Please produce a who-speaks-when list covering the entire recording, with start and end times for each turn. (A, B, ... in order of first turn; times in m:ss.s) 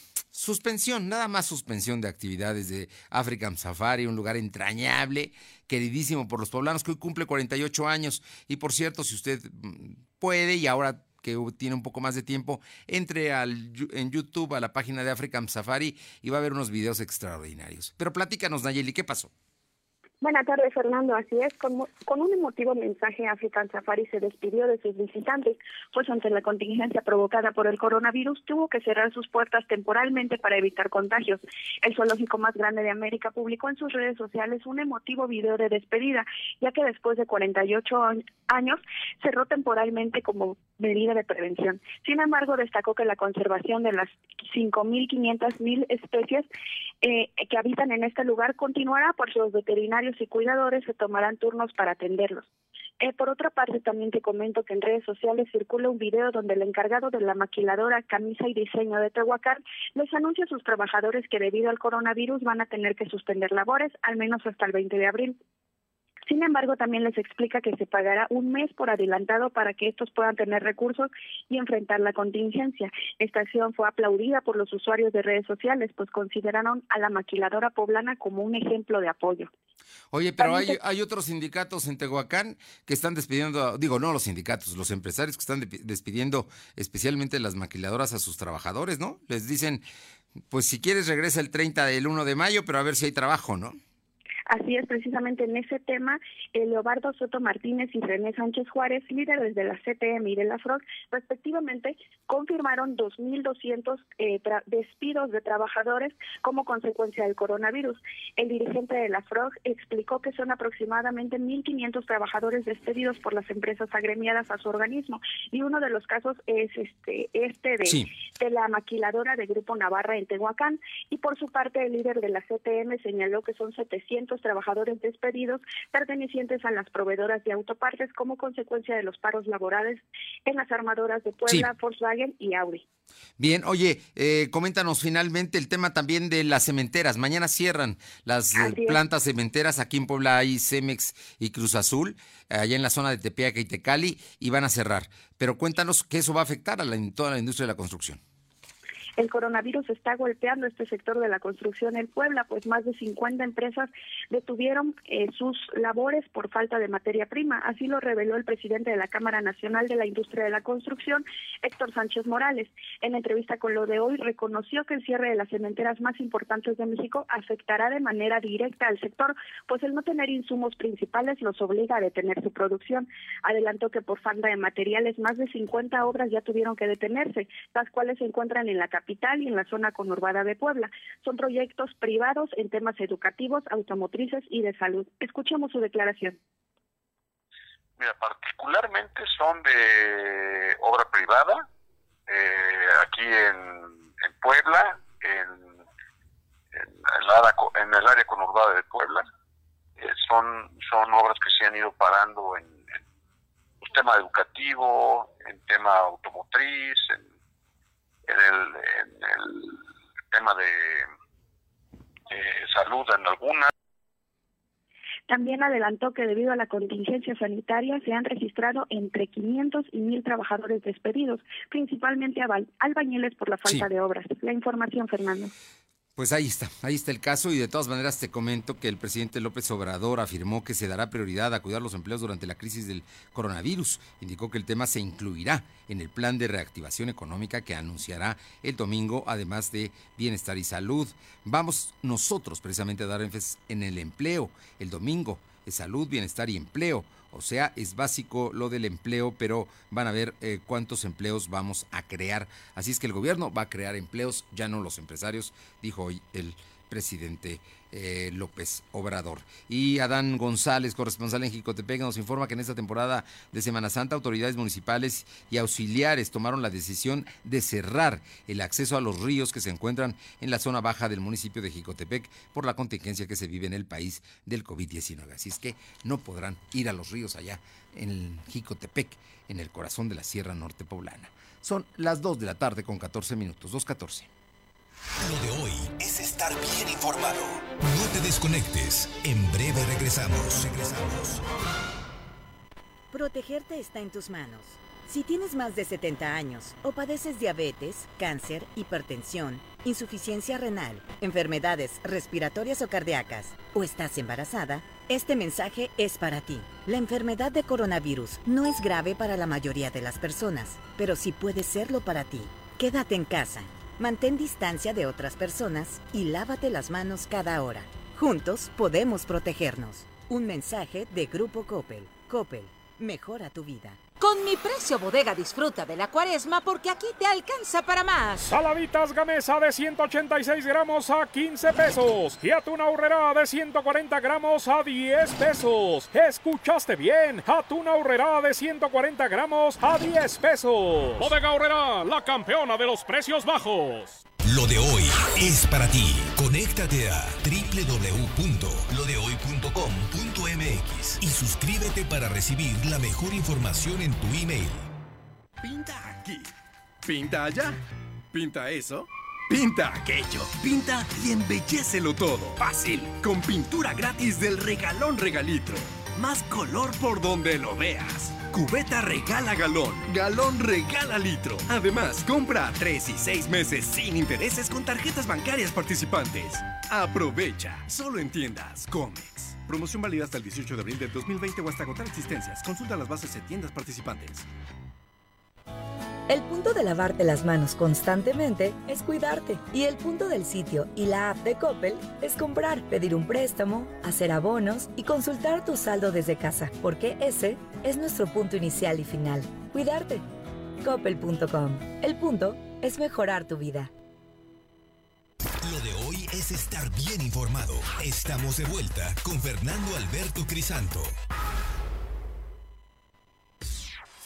0:00.3-0:19.3 A
0:20.2-0:46.5 B
0:47.0-0:52.5 B
0:53.0-1:05.4 B
1:06.3-1:19.5 B
1:20.1-1:29.8 A
1:20.4-1:20.8 B
1:30.5-1:33.8 A
1:34.5-2:12.8 B
2:13.4-2:28.2 A
2:18.5-2:19.0 B
2:29.2-3:06.4 B
3:08.0-3:11.6 C
3:12.3-3:15.8 C
3:16.7-3:19.3 C
3:20.0-3:23.0 C
3:23.8-3:27.2 C
3:28.3-3:29.8 C
3:30.3-3:31.1 C
3:32.3-3:33.7 C
3:35.3-3:45.5 B
3:46.2-4:44.3 A
4:45.2-4:51.4 D
4:53.1-5:24.0 E
5:24.2-5:28.5 F
5:28.5-5:44.2 G
5:44.4-5:54.9 D
5:55.6-5:56.5 H
5:57.0-5:57.8 H
5:58.3-6:24.4 H
6:26.3-6:40.2 I
6:40.8-6:43.9 I
6:45.6-6:51.1 D